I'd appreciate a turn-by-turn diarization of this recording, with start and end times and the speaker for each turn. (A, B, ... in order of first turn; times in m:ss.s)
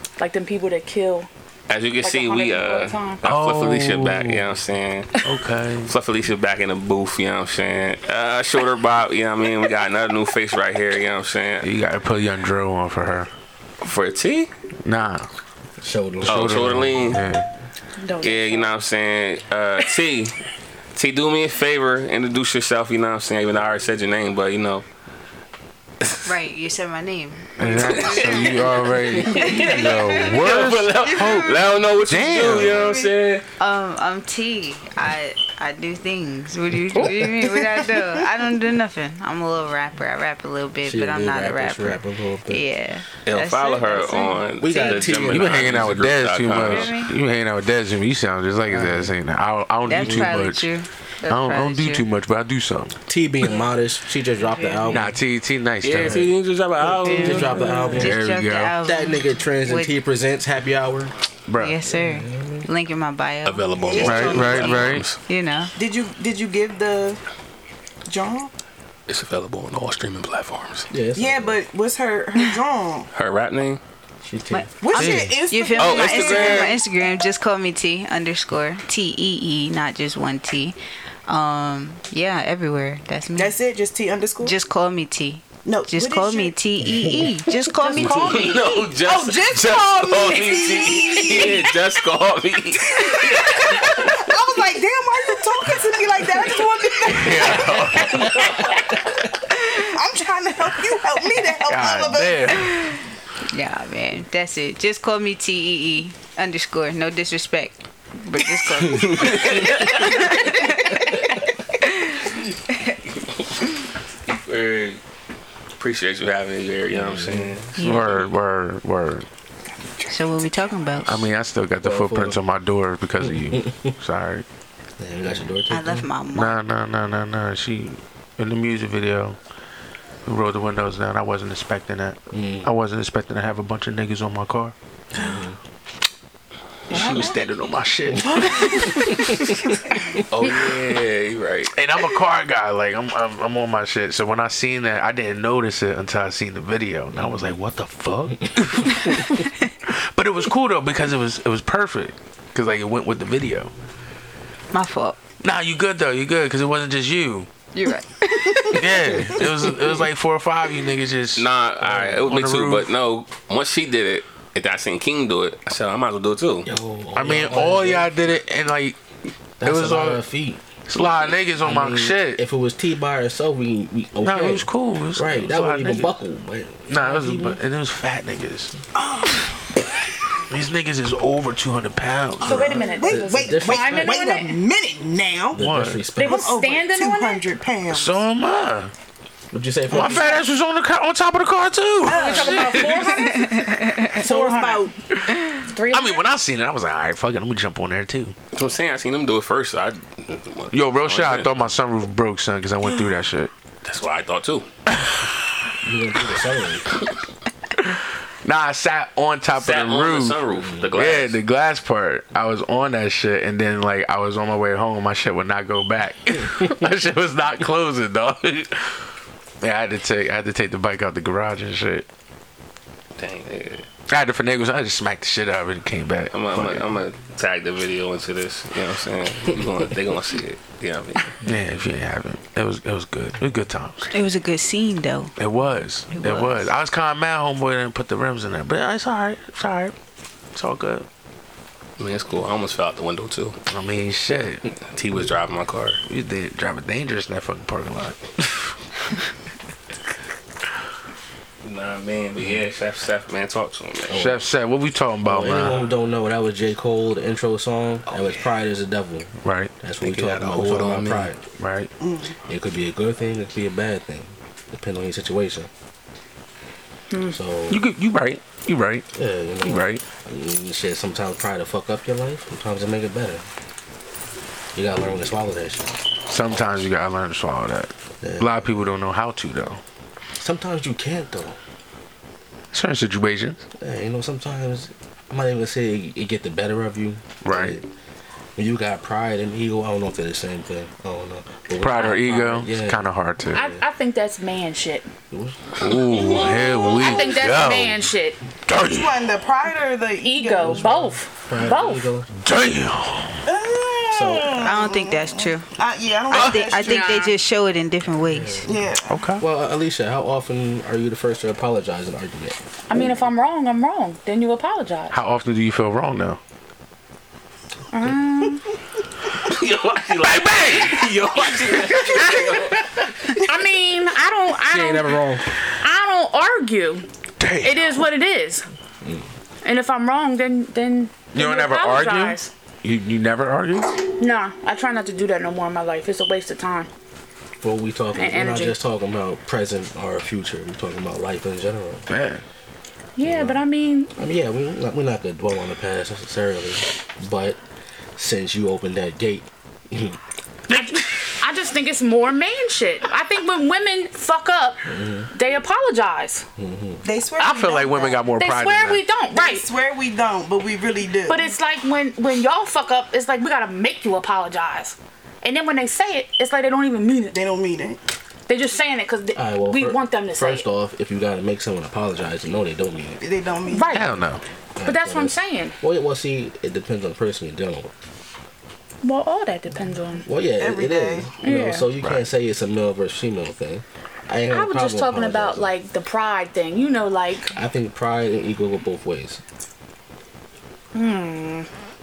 0:00.2-0:01.3 A
0:01.7-0:05.1 B
0:02.0-0:03.2 A
0:03.2-0:04.5 C
0:05.2-0:05.9 C
0:05.8-0:11.7 B
0:11.6-0:13.3 C
0:13.8-0:14.5 B
0:14.8-0:15.3 C
0:15.8-0:16.6 D
0:16.2-0:17.2 B
0:16.2-0:17.5 C
0:18.0-0:18.7 A
0:18.2-0:20.3 B
0:21.0-0:24.8 B
0:26.3-0:28.8 E
0:27.6-0:32.9 C
0:27.6-0:33.4 B
0:29.3-0:30.4 E
0:31.1-0:31.4 F
0:32.8-0:33.1 F
0:33.6-0:45.1 E
0:37.6-0:38.0 F
0:40.8-0:42.6 D
0:43.3-0:47.0 B
0:44.6-0:45.9 D
0:45.3-0:50.7 C
0:46.6-0:47.1 E
0:48.7-0:49.1 D
0:49.9-0:52.1 E
0:50.0-0:50.3 D
0:51.3-0:53.0 C
0:53.1-0:55.1 D
0:53.4-0:53.7 E
0:54.3-0:55.0 E
0:54.9-0:56.3 C
0:55.8-0:57.8 B
0:56.8-0:58.2 D
0:56.9-1:00.0 E
0:58.0-0:58.8 C
0:58.8-1:01.1 D
1:01.5-1:01.8 C
1:01.6-1:05.7 E
1:01.8-1:02.7 D
1:03.4-1:05.2 B
1:03.9-1:04.3 F
1:04.0-1:05.1 C
1:05.8-1:07.2 F
1:08.1-1:08.5 F
1:09.1-1:10.9 B
1:10.9-1:11.6 D
1:11.2-1:13.1 F
1:13.2-1:13.8 B
1:14.2-1:14.7 D
1:14.5-1:20.8 E
1:14.8-1:16.8 F
1:14.9-1:15.4 C
1:15.8-1:16.8 B
1:21.3-1:23.6 E
1:23.4-1:24.6 F
1:24.4-1:28.5 E
1:25.6-1:26.6 F
1:26.9-1:27.3 D
1:27.8-1:28.8 A
1:28.0-1:34.2 B
1:28.9-1:31.7 F
1:31.0-1:31.5 A
1:32.8-1:37.9 F
1:37.1-1:38.5 C
1:39.7-1:42.6 F
1:41.6-1:42.8 C
1:43.5-1:51.2 E
1:49.1-1:49.9 B
1:54.4-1:55.0 B
1:55.8-1:57.7 B
1:56.9-1:57.6 D
1:57.8-1:58.2 E
1:57.8-1:59.3 C
2:00.1-2:01.3 E
2:01.1-2:04.4 C
2:01.8-2:02.4 D
2:03.3-2:03.9 D
2:05.0-2:06.1 D
2:05.7-2:06.6 E
2:06.3-2:09.4 C
2:10.3-2:14.8 C
2:12.3-2:12.7 D
2:15.1-2:15.6 D
2:16.9-2:19.8 C
2:20.3-2:21.8 B
2:21.7-2:33.7 C
2:34.7-2:35.2 E
2:35.4-2:37.5 C
2:37.7-2:39.7 E
2:38.7-2:42.9 C
2:41.4-2:46.7 B
2:46.6-2:48.1 D
2:47.2-2:49.0 C
2:49.6-2:50.6 D
2:49.6-2:50.2 C
2:50.9-2:52.4 C
2:51.6-2:57.6 D
2:54.2-2:56.2 C
2:56.9-2:58.7 C
2:59.0-2:59.4 F
3:00.5-3:02.8 C
3:02.4-3:04.6 A
3:02.4-3:05.6 F
3:02.5-3:04.2 D
3:05.5-3:06.6 D
3:05.6-3:06.1 C
3:06.2-3:07.5 A
3:06.2-3:08.2 F
3:07.9-3:08.9 C
3:09.5-3:10.4 D
3:09.9-3:13.3 C
3:12.0-3:13.0 F
3:12.1-3:14.9 A
3:13.6-3:14.0 E
3:14.1-3:14.9 F
3:15.7-3:16.2 A
3:15.9-3:18.4 C
3:18.5-3:21.7 B
3:20.7-3:23.5 C
3:23.8-3:24.7 B
3:24.9-3:25.4 C
3:25.8-3:26.9 D
3:27.8-3:39.0 C
3:29.6-3:31.4 B
3:39.6-3:42.1 C
3:43.2-3:43.8 B
3:44.1-3:47.0 C
3:46.3-3:51.4 B
3:51.4-3:54.1 C
3:54.1-3:55.4 E
3:55.4-4:00.0 C
3:56.1-3:56.7 E
4:00.5-4:01.1 C
4:02.0-4:03.6 B
4:03.7-4:04.6 C
4:04.9-4:06.0 B
4:06.1-4:08.7 C
4:11.6-4:14.2 B
4:14.1-4:14.4 D
4:14.1-4:15.9 C
4:15.2-4:21.4 D
4:18.1-4:18.5 B
4:19.4-4:19.7 C
4:20.0-4:21.3 B
4:21.6-4:21.9 C
4:22.0-4:22.4 F
4:22.5-4:25.7 D
4:27.1-4:27.4 A
4:27.3-4:27.8 D
4:27.7-4:29.1 C
4:29.2-4:33.4 D
4:29.6-4:30.0 C
4:34.8-4:36.0 D
4:36.3-4:39.8 C
4:38.2-4:38.9 D
4:40.4-4:41.6 D
4:42.7-4:43.6 C
4:43.8-4:47.9 D
4:47.4-4:47.8 C
4:48.6-4:53.8 D
4:51.8-4:53.7 C
4:53.5-4:55.1 A
4:55.3-4:55.7 D
4:55.8-4:58.1 C
4:56.1-4:57.2 F
4:56.8-4:58.4 A
4:58.7-4:59.2 C
4:58.8-5:00.9 F
5:00.2-5:02.1 A
5:00.6-5:02.3 D
5:02.4-5:03.4 C
5:03.4-5:07.3 F
5:04.1-5:04.6 D
5:04.6-5:05.7 E
5:06.3-5:08.6 E
5:06.3-5:06.6 C
5:06.8-5:07.4 A
5:08.3-5:08.9 D
5:08.6-5:09.1 F
5:09.1-5:09.4 C
5:09.4-5:13.1 D
5:12.9-5:15.1 A
5:15.1-5:16.4 C
5:17.9-5:18.6 A
5:19.5-5:22.9 B
5:20.2-5:22.7 C
5:23.4-5:25.2 A
5:24.6-5:25.5 D
5:25.8-5:27.1 A
5:27.4-5:28.0 C
5:27.6-5:28.7 A
5:29.6-5:32.5 A
5:31.3-5:33.9 C
5:34.2-5:36.9 A
5:37.6-5:42.1 D
5:38.1-5:38.8 A
5:42.1-5:42.4 C
5:43.2-5:44.1 A
5:43.2-5:43.6 D
5:44.2-5:47.6 D
5:48.2-5:50.2 D
5:50.7-5:56.4 A
5:54.9-5:55.3 D
5:56.6-5:57.0 D
5:57.0-5:58.3 F
5:57.4-5:59.0 C
5:58.3-5:59.7 A
5:59.3-6:01.5 F
6:01.3-6:07.4 A
6:07.3-6:08.0 F
6:08.5-6:10.7 A
6:09.4-6:13.2 D
6:13.2-6:14.0 F
6:13.7-6:14.2 A
6:13.9-6:14.4 C
6:14.8-6:17.9 D
6:14.8-6:15.8 A
6:19.0-6:20.3 A
6:20.2-6:25.7 D
6:20.6-6:21.3 F
6:21.4-6:21.9 A
6:22.0-6:22.3 C
6:24.5-6:27.5 A
6:27.5-6:29.4 D
6:30.9-6:31.7 A